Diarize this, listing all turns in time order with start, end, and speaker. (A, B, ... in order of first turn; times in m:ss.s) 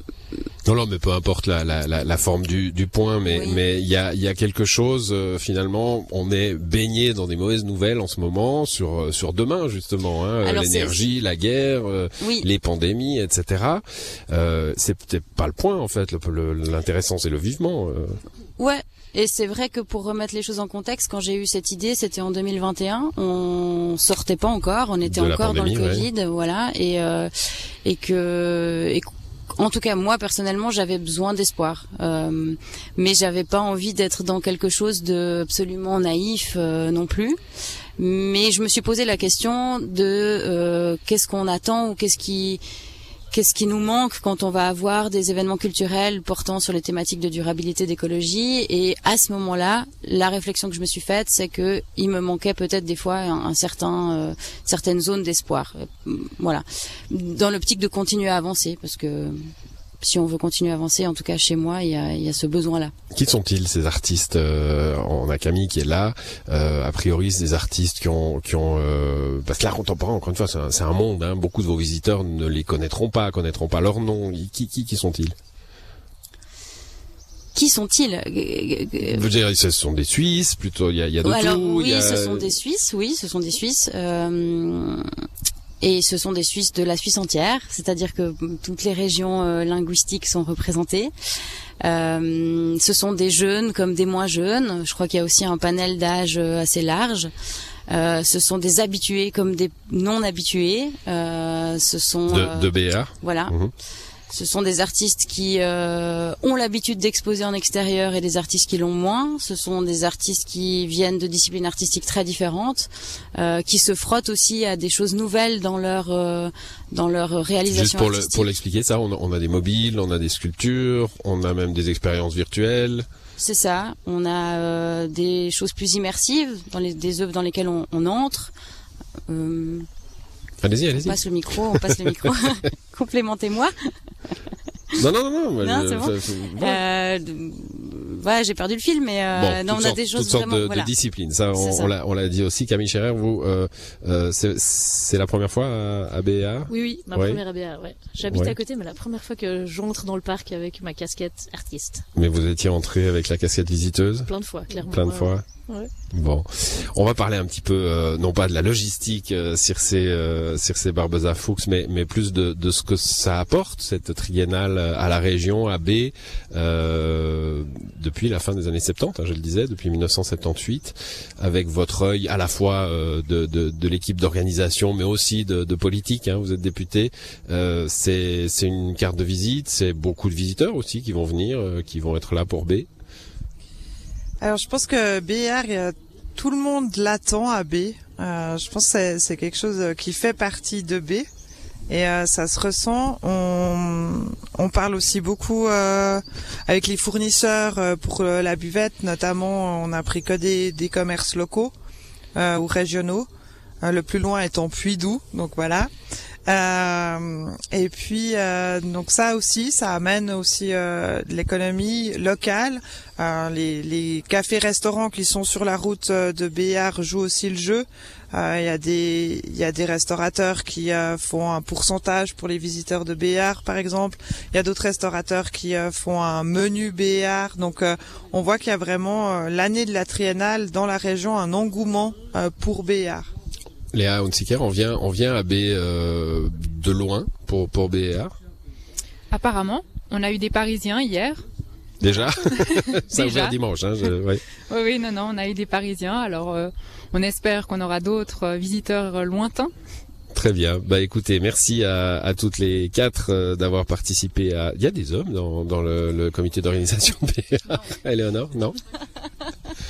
0:00.6-0:18.2 A
0:18.6-0:27.3 B
0:25.0-0:26.1 A
0:27.8-0:29.0 B
0:29.6-0:37.4 B
0:38.0-0:42.6 B
0:43.3-0:59.4 B
1:00.1-1:02.9 B
1:03.1-1:15.4 A
1:17.6-1:19.0 B
1:19.0-1:22.6 A
1:21.3-1:25.1 B
1:25.8-1:31.1 B
1:31.8-1:37.3 B
1:37.9-1:42.7 B
1:42.3-1:43.7 A
1:44.3-1:52.9 B
1:53.4-1:58.0 B
1:57.7-2:03.1 A
2:03.4-2:08.5 B
2:09.3-2:09.9 B
2:10.6-2:12.6 A
2:11.1-2:12.2 B
2:12.9-2:13.7 B
2:15.0-2:16.8 A
2:16.6-2:19.7 B
2:19.3-2:27.4 A
2:26.7-2:32.0 C
2:28.2-2:28.6 A
2:32.2-2:34.3 A
2:34.3-2:35.9 C
2:34.9-2:35.4 A
2:36.1-3:02.9 A
3:04.4-3:11.3 D
3:11.9-3:21.7 D
3:22.4-3:23.3 D
3:23.8-3:25.9 D
3:26.5-3:53.3 D
3:53.9-3:58.3 A
3:59.3-4:01.4 E
4:02.0-4:04.4 A
4:02.6-4:03.6 E
4:04.7-4:09.7 E
4:10.3-4:18.8 A